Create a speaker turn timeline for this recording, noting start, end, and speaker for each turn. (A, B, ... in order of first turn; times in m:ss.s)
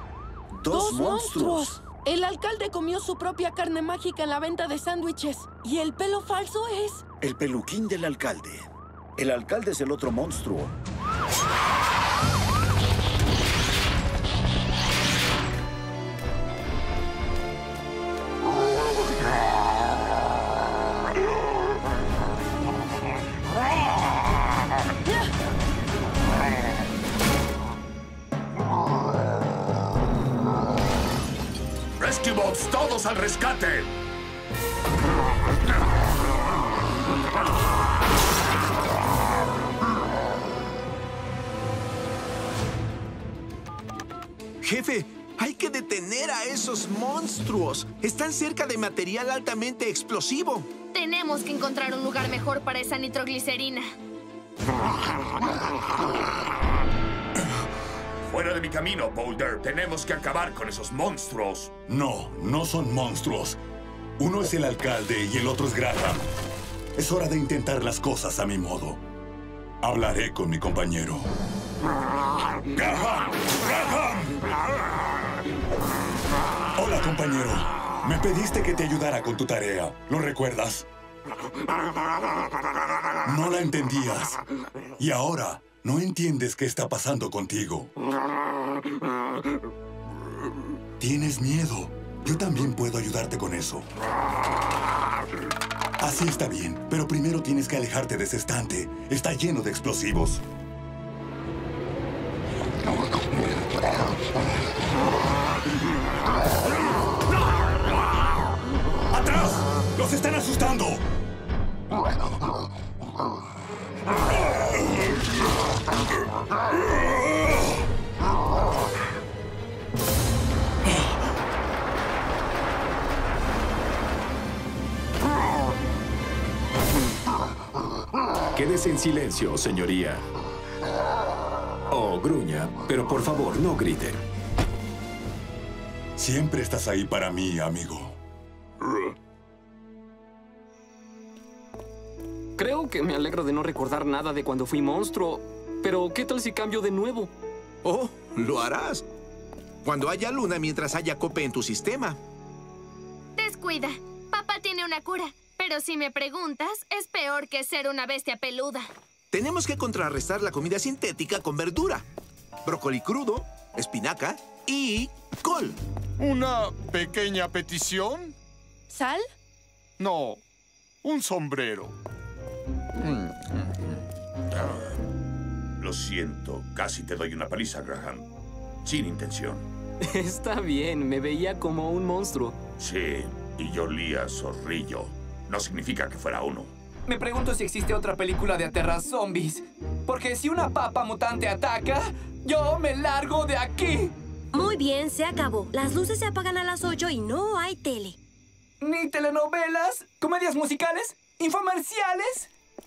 0:00.5-0:01.7 A
0:00.7-0:07.0 B
0:07.2-0:10.7 A
0:25.0-0:25.3 B
0:32.0-0:33.9 C
0:44.6-0:50.7 D
0:50.9-0:53.9 E
0:58.2-1:01.7 C
1:01.9-1:03.6 F
1:04.2-1:06.3 F
1:07.0-1:09.0 F
1:09.8-1:11.3 F
1:12.7-1:14.5 F
1:16.8-1:20.9 F
1:23.2-1:24.4 F
1:25.0-1:27.9 F
1:31.0-1:33.9 F
1:36.0-1:40.4 F
1:49.1-1:51.0 F
2:08.5-2:10.2 G
2:11.9-2:14.2 G
2:16.2-2:18.2 F
2:22.6-2:27.3 H
2:27.8-2:29.0 D
2:29.8-2:32.2 D
2:33.4-2:38.9 E
2:39.3-2:42.0 D
2:42.6-2:45.8 D
2:46.2-2:48.3 I
2:48.9-2:49.3 B
2:50.0-2:50.4 I
2:51.0-2:52.0 I
2:53.0-2:53.8 I
2:54.5-2:55.0 C
2:55.8-2:58.3 C
2:58.8-2:59.6 C
3:00.0-3:02.6 H
3:02.8-3:06.7 C
3:07.1-3:14.1 J
3:14.5-3:18.2 K
3:18.8-3:22.5 J